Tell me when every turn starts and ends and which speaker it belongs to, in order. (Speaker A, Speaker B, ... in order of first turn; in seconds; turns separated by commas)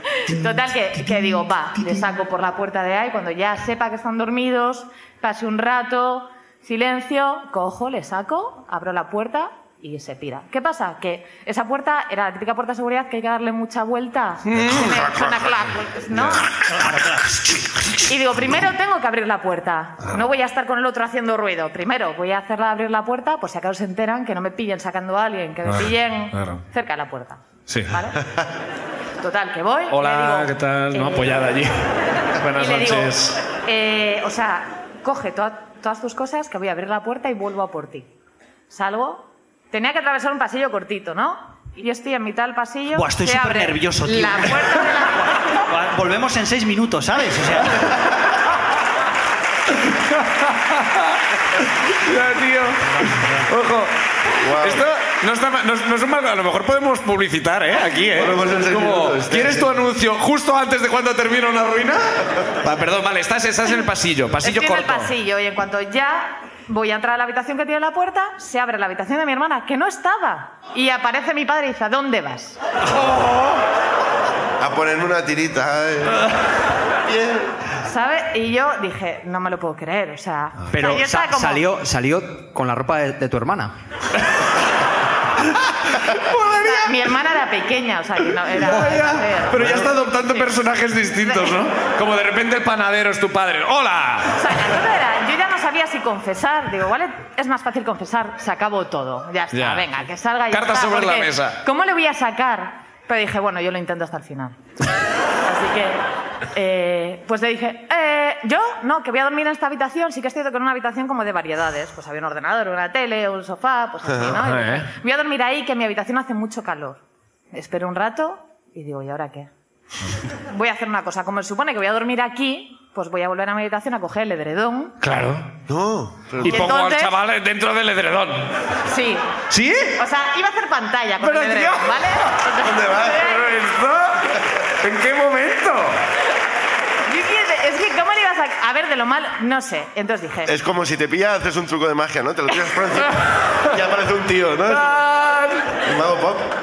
Speaker A: 0.2-16.5, Speaker B: 14.5-15.3, Speaker C: 16.1-16.4, Speaker A: 18.0-28.2, Speaker B: 25.7-26.6, Speaker B: 27.7-27.9, Speaker A: 29.2-31.5, Speaker B: 29.9-31.8, Speaker B: 32.4-33.4, Speaker A: 32.5-38.1, Speaker A: 38.7-45.6, Speaker D: 42.9-44.8, Speaker D: 45.7-47.9, Speaker B: 49.8-51.2, Speaker B: 51.8-53.9, Speaker C: 54.4-54.9, Speaker B: 54.6-62.0, Speaker C: 58.1-59.8, Speaker B: 62.6-65.1, Speaker A: 64.4-72.6, Speaker C: 74.6-76.3, Speaker C: 77.0-77.5, Speaker A: 77.8-81.6, Speaker E: 80.7-83.7, Speaker B: 86.0-87.0, Speaker A: 86.5-91.6, Speaker B: 88.5-94.5, Speaker A: 94.3-104.6, Speaker B: 99.5-99.9, Speaker B: 100.5-101.6, Speaker A: 105.4-106.0, Speaker A: 106.5-117.0, Speaker B: 114.3-114.9, Speaker A: 117.5-119.5, Speaker A: 120.5-125.0, Speaker B: 125.0-125.5, Speaker C: 125.7-126.7, Speaker B: 126.4-128.5, Speaker A: 126.4-127.2, Speaker A: 128.8-129.3, Speaker B: 129.5-130.0, Speaker A: 130.0-133.6, Speaker B: 131.2-132.0, Speaker C: 132.6-133.2, Speaker B: 133.2-136.0, Speaker A: 137.1-140.6, Speaker C: 140.4-145.0, Speaker B: 144.7-145.8, Speaker C: 145.8-146.5